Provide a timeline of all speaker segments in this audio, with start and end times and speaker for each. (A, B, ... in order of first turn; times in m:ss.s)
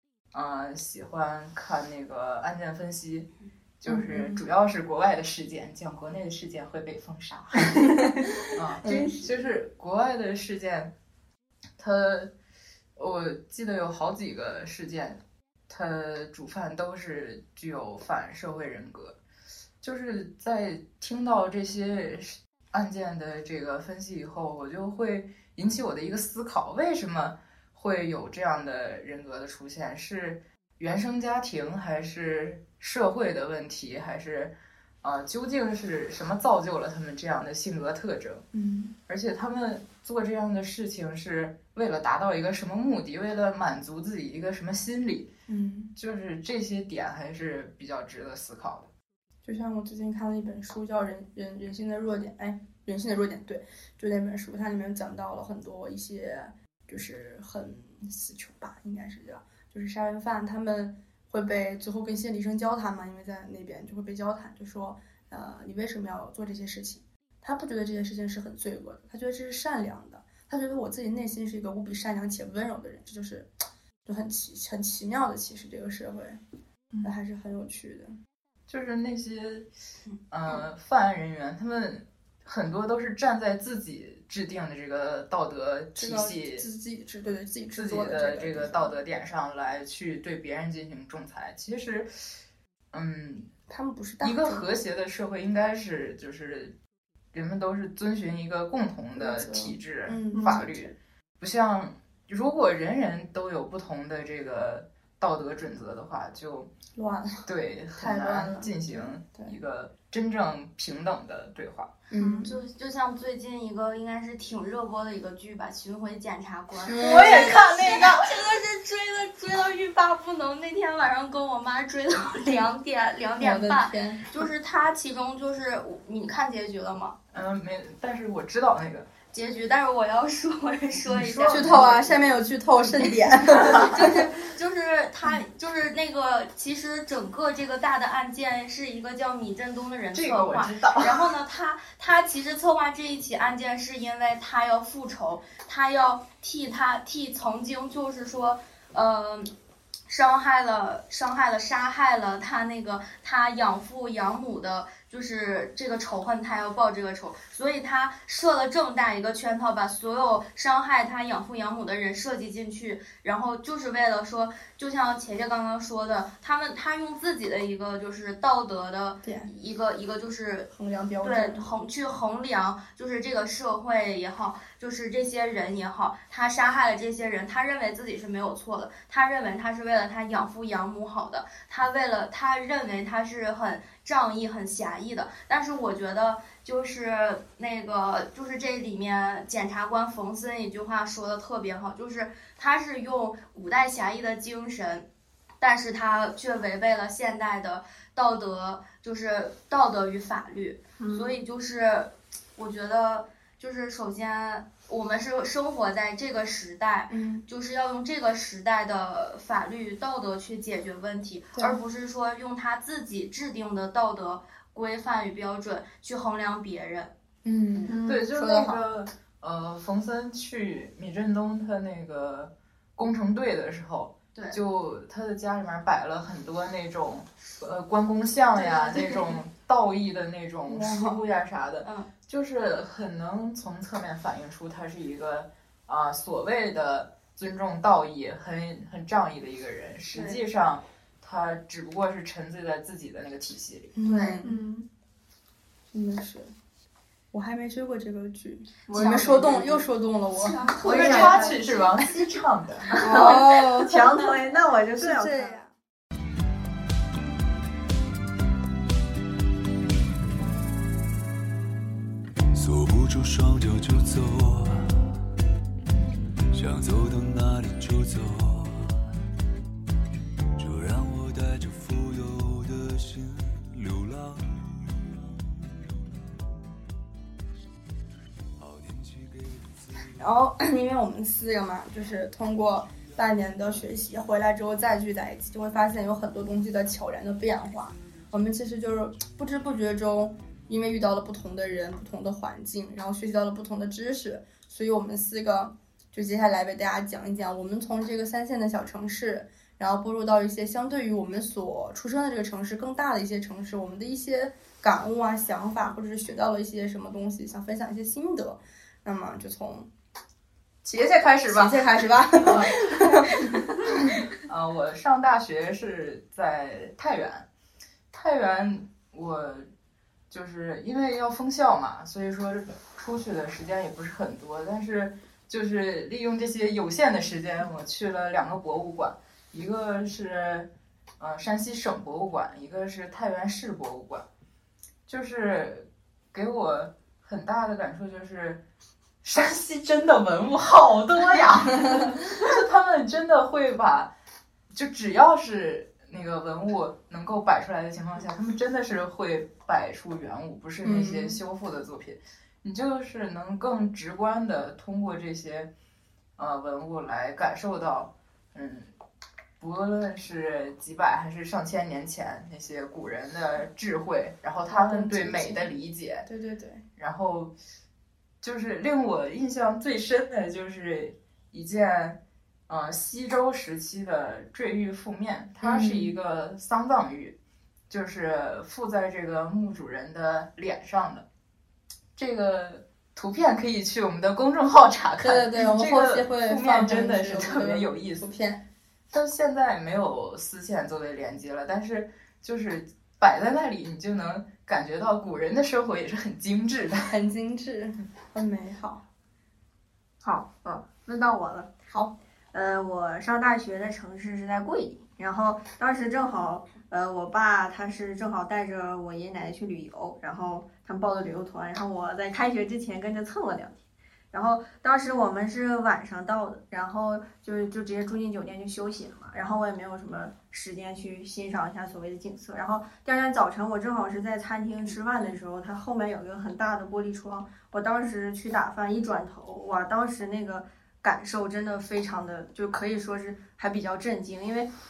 0:00.3-0:10.9 A
0:03.9-0:04.4 B
0:08.8-0:09.1 B
0:08.8-0:09.3 C
0:11.8-0:12.3 A
0:13.0-0:19.2 A
0:19.8-0:38.4 A
0:38.5-0:39.0 B
0:39.1-0:45.3 A
0:45.5-0:45.9 B
0:46.0-0:48.9 A
0:49.4-1:13.5 B
1:14.0-1:16.4 B
1:17.0-1:18.1 B
1:18.7-1:19.7 A
1:20.3-1:26.6 A
1:26.0-1:28.9 B
1:27.7-1:32.1 A
1:32.9-1:33.5 A
1:33.7-1:34.7 B
1:34.2-1:36.7 A
1:37.3-1:46.7 A
1:39.2-1:40.9 B
1:40.3-1:40.6 C
1:47.0-1:47.4 B
1:47.4-1:51.9 A
1:48.0-1:49.6 B
1:52.1-1:52.5 B
1:52.2-1:52.5 C
1:52.4-2:07.2 D
1:56.9-1:57.7 B
1:56.9-1:58.3 A
2:03.4-2:04.3 B
2:07.3-2:09.1 A
2:09.3-2:11.6 D
2:11.0-2:12.3 A
2:11.5-2:14.1 B
2:13.5-2:29.5 D
2:20.1-2:21.3 A
2:30.1-2:50.7 D
2:49.2-2:49.5 B
2:50.7-2:51.7 B
2:51.2-3:15.1 D
3:15.6-3:37.1 D
3:21.0-3:21.4 C
3:27.1-3:27.4 B
3:37.4-3:38.8 B
3:37.9-3:38.2 C
3:38.1-4:04.0 A
3:50.7-3:51.2 B
3:51.8-3:52.1 D
4:00.1-4:00.4 D
4:03.9-4:04.6 B
4:04.0-4:04.4 D
4:04.4-4:04.9 C
4:05.9-4:06.5 B
4:07.3-4:10.6 B
4:08.9-4:09.8 C
4:08.9-4:09.4 D
4:10.3-4:12.3 D
4:10.8-4:11.6 C
4:10.8-4:12.9 A
4:12.9-4:13.4 D
4:12.9-4:15.5 C
4:13.0-4:14.0 B
4:14.9-4:15.7 B
4:22.5-4:24.9 E
4:26.5-4:29.0 E
4:30.6-4:35.5 E
4:38.6-4:39.8 E
4:40.2-5:09.9 B
5:10.8-5:11.8 A
5:11.5-5:14.2 B
5:12.4-5:12.8 A
5:14.4-5:17.5 A
5:18.1-5:19.7 A
5:20.3-5:34.2 A
5:35.1-5:38.6 A
5:39.2-5:44.1 A
5:44.7-5:55.7 A
5:50.8-5:51.4 B
5:56.4-5:58.9 A
5:59.6-6:06.3 A
6:04.7-6:05.7 B
6:06.2-6:06.8 B
6:07.0-6:07.5 A
6:08.4-6:17.4 A
6:15.6-6:16.2 B
6:17.9-6:21.2 A
6:22.2-6:28.3 A
6:25.2-6:28.6 B
6:29.1-6:37.1 A
6:37.1-6:39.0 B
6:40.2-6:41.7 C
6:41.9-6:42.1 B
6:42.5-6:53.8 C
6:54.3-7:14.7 C